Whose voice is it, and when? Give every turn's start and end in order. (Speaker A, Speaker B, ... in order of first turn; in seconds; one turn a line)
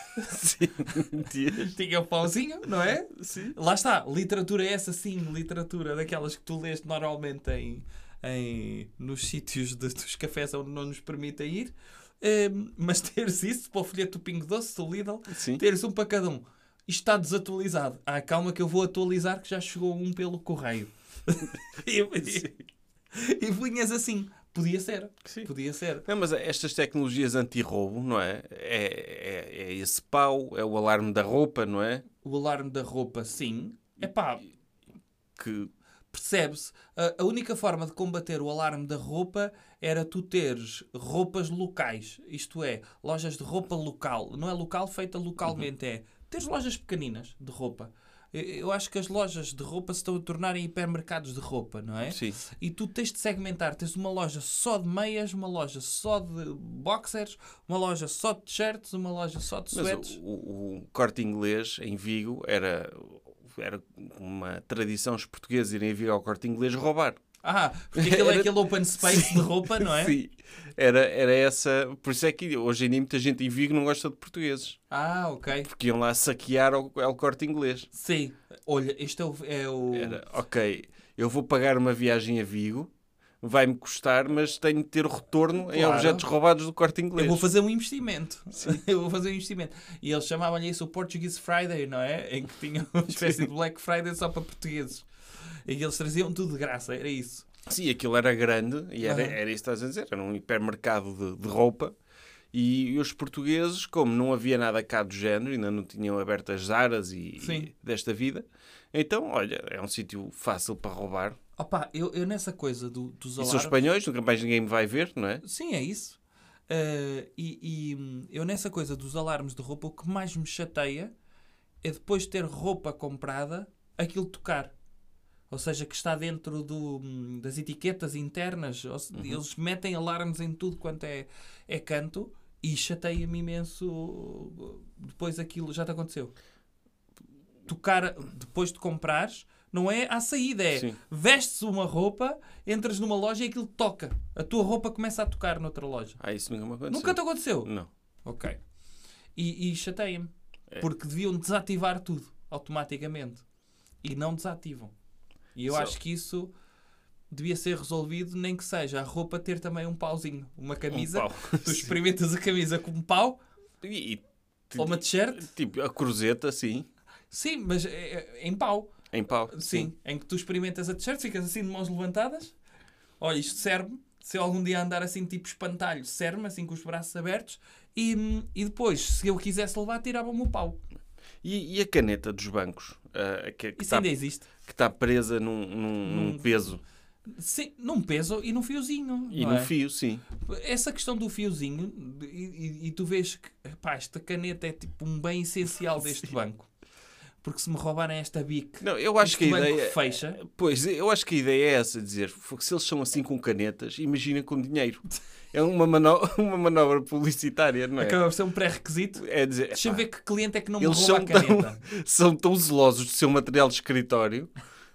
Speaker A: 0.1-1.7
Speaker B: 1.6-22.6
Speaker A: 3.1-3.5
Speaker A: 15.3-15.6
Speaker B: 23.1-26.0
Speaker A: 26.1-32.0
Speaker B: 32.2-34.5
Speaker A: 35.4-35.7
Speaker B: 36.1-60.2
Speaker A: 52.1-52.4
Speaker A: 59.7-67.2
Speaker B: 67.4-70.2
Speaker A: 68.0-74.8
Speaker B: 74.9-75.7
Speaker A: 75.6-77.9
Speaker B: 77.9-80.2
Speaker A: 79.9-82.9
Speaker A: 83.4-87.5
Speaker B: 85.7-86.3
Speaker B: 87.2-95.1
Speaker B: 95.7-97.5
Speaker A: 97.7-101.9
Speaker B: 99.0-99.4
Speaker A: 102.5-111.4
Speaker B: 107.4-107.7
Speaker B: 111.6-113.8
Speaker A: 113.4-115.4
Speaker B: 115.4-121.1
Speaker B: 121.8-124.7
Speaker B: 125.5-136.3
Speaker A: 129.1-129.4
Speaker B: 137.7-146.2
Speaker A: 146.2-147.9
Speaker B: 146.9-147.7
Speaker B: 148.2-148.6
Speaker B: 149.3-153.4
Speaker B: 154.0-154.9
Speaker B: 155.5-156.5
Speaker A: 155.7-155.9
Speaker B: 157.3-163.4
Speaker A: 160.9-161.9
Speaker A: 163.8-166.8
Speaker B: 164.8-165.5
Speaker B: 167.3-168.9
Speaker A: 169.1-169.9
Speaker B: 169.5-172.5
Speaker B: 173.2-180.8
Speaker A: 181.4-186.8
Speaker B: 183.8-184.5
Speaker B: 186.0-186.5
Speaker B: 187.3-189.7
Speaker A: 189.3-190.2
Speaker B: 190.3-196.7
Speaker B: 197.4-200.4
Speaker A: 198.8-208.2
Speaker B: 208.0-211.8
Speaker A: 209.2-210.0
Speaker A: 210.8-214.5